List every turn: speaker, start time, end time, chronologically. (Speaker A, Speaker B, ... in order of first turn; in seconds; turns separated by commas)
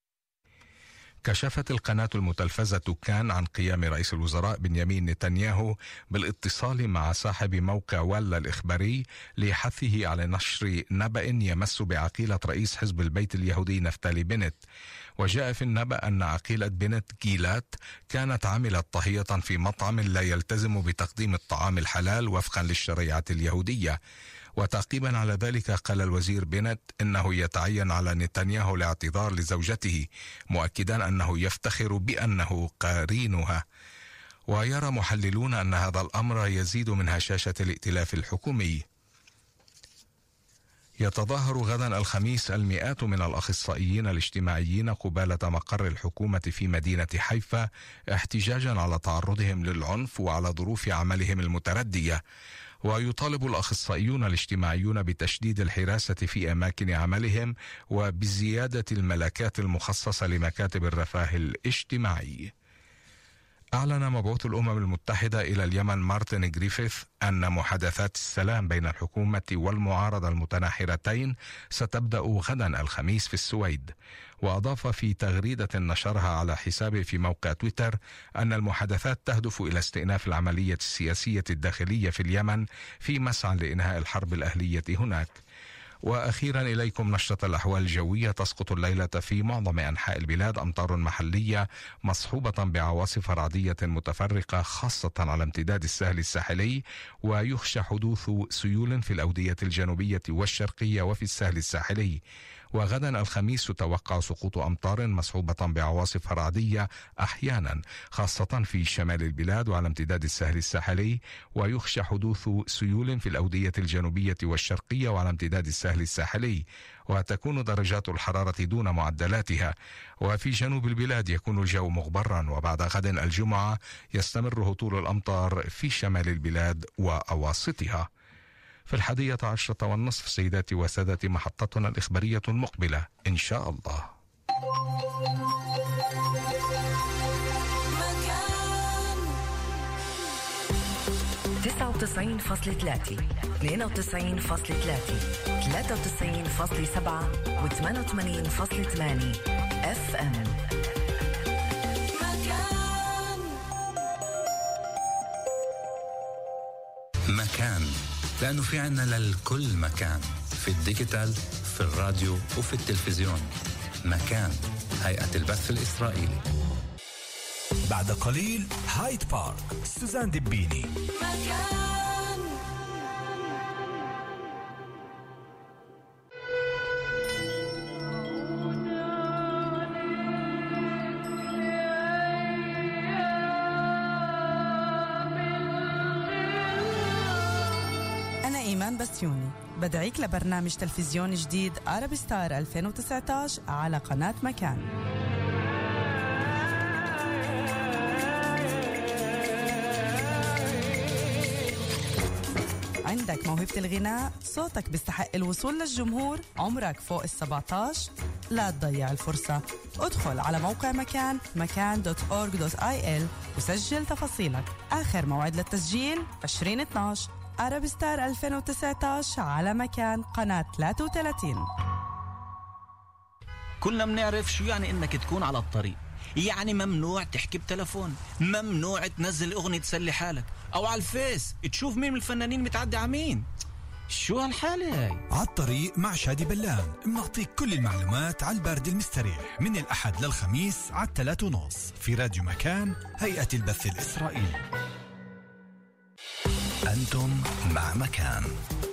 Speaker A: 1.2-14.6, Speaker A: 15.2-24.0, Speaker A: 24.6-33.6, Speaker A: 34.5-38.8, Speaker A: 41.0-47.6, Speaker A: 48.1-52.2, Speaker A: 52.9-62.5, Speaker A: 63.8-73.9, Speaker A: 74.4-85.3, Speaker A: 86.0-102.2, Speaker A: 102.7-119.7, Speaker A: 120.2-128.1, Speaker A: 128.9-134.1, Speaker B: 137.9-139.3, Speaker C: 141.6-150.6, Speaker B: 152.1-153.5, Speaker D: 157.3-163.5, Speaker D: 164.0-166.4, Speaker E: 167.9-170.9, Speaker B: 171.2-172.6, Speaker F: 188.4-194.9, Speaker F: 203.0-221.7, Speaker G: 223.8-233.4, Speaker G: 234.1-235.2, Speaker E: 235.3-244.6, Speaker D: 246.9-248.5